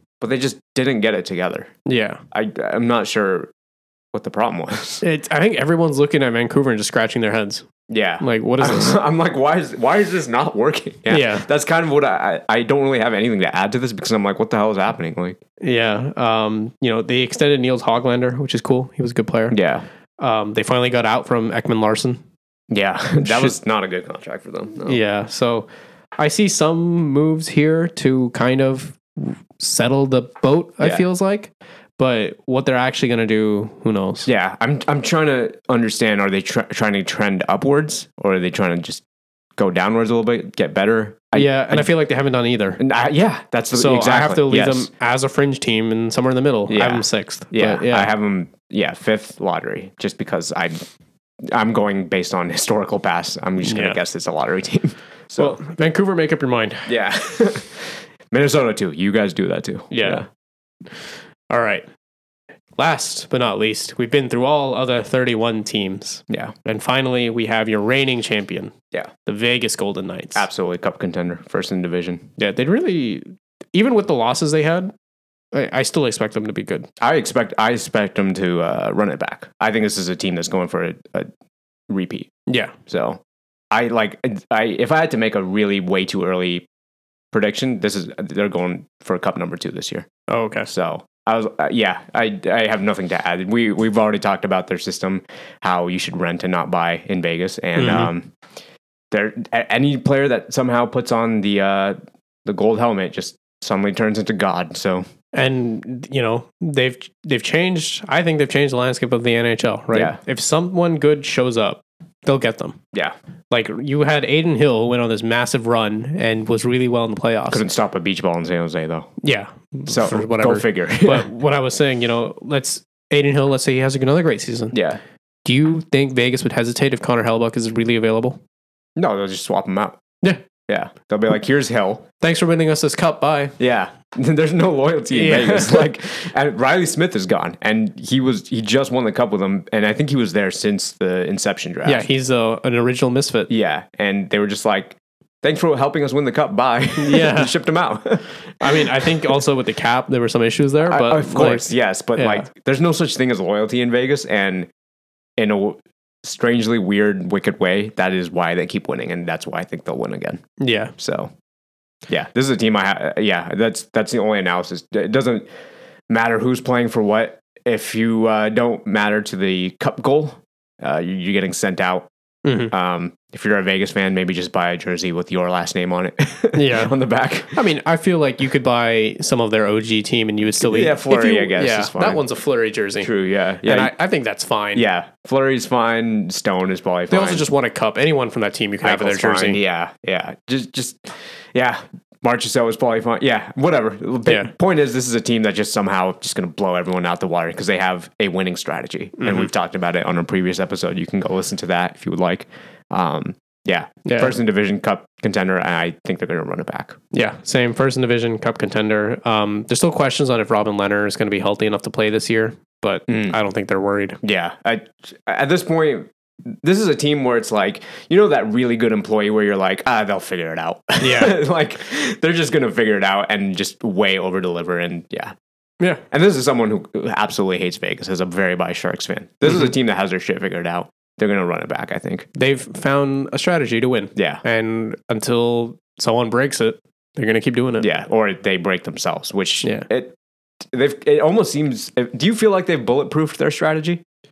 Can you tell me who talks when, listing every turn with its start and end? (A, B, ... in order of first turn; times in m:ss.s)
0:00.2-0:01.7 A
0:01.8-0:02.2 B
0:02.3-0:03.5 A
0:04.1-0:05.0 A
0:05.0-0:07.7 B
0:07.9-0:15.4 A
0:08.2-0:09.0 B
0:11.1-0:11.5 B
0:15.6-0:19.6 B
0:19.5-0:19.8 A
0:20.2-0:22.2 B
0:22.7-0:25.0 A
0:23.2-0:23.5 B
0:24.8-0:25.7 B
0:26.2-0:34.3 B
0:34.2-0:39.0 A
0:39.6-0:41.9 A
0:41.3-0:42.8 B
0:42.8-0:44.9 A
0:43.7-0:48.1 B
0:46.7-0:50.8 A
0:51.4-0:55.6 A
0:53.6-0:54.0 B
0:55.4-0:56.9 B
0:56.8-1:00.3 A
0:59.9-1:00.2 B
1:01.5-1:01.8 B
1:02.8-1:08.7 B
1:06.3-1:06.5 A
1:09.2-1:10.4 B
1:10.3-1:12.3 A
1:12.4-1:14.9 B
1:15.5-1:16.9 B
1:17.0-1:21.3 A
1:21.9-1:22.3 A
1:22.5-1:22.8 B
1:22.9-1:23.2 A
1:23.7-1:26.6 A
1:27.3-1:30.1 A
1:30.3-1:30.7 B
1:30.7-1:38.3 A
1:37.8-1:38.1 B
1:39.1-1:45.0 A
1:45.3-1:52.8 B
1:49.9-1:50.2 A
1:53.5-1:57.6 B
1:57.5-1:59.1 A
1:59.2-2:04.8 B
1:59.9-2:01.3 A
2:04.7-2:05.0 A
2:05.4-2:08.4 B
2:09.0-2:10.0 A
2:10.7-2:12.0 A
2:12.2-2:13.5 B
2:13.6-2:22.1 A
2:15.1-2:15.9 B
2:21.8-2:23.5 B
2:23.5-2:29.4 A
2:27.0-2:27.6 B
2:28.6-2:32.5 B
2:30.8-2:34.7 A
2:35.4-2:40.4 A
2:40.6-2:40.9 B
2:41.0-2:41.3 A
2:42.1-2:45.5 A
2:46.1-2:52.1 A
2:52.4-2:52.7 B
2:52.7-2:57.6 A
2:56.5-2:57.0 B
2:57.5-3:03.1 B
3:00.6-3:02.2 A
3:03.0-3:03.9 A
3:03.6-3:04.8 B
3:04.7-3:07.5 A
3:07.1-3:09.6 B
3:08.8-3:27.0 A
3:14.3-3:14.5 B
3:19.2-3:19.5 B
3:24.0-3:24.3 B
3:27.1-3:34.2 B
3:33.1-3:33.4 A
3:34.2-3:45.3 A
3:41.0-3:41.4 B
3:46.1-3:52.3 A
3:52.3-3:57.9 B
3:54.1-3:54.4 A
3:57.8-4:04.0 A
3:59.6-3:59.9 B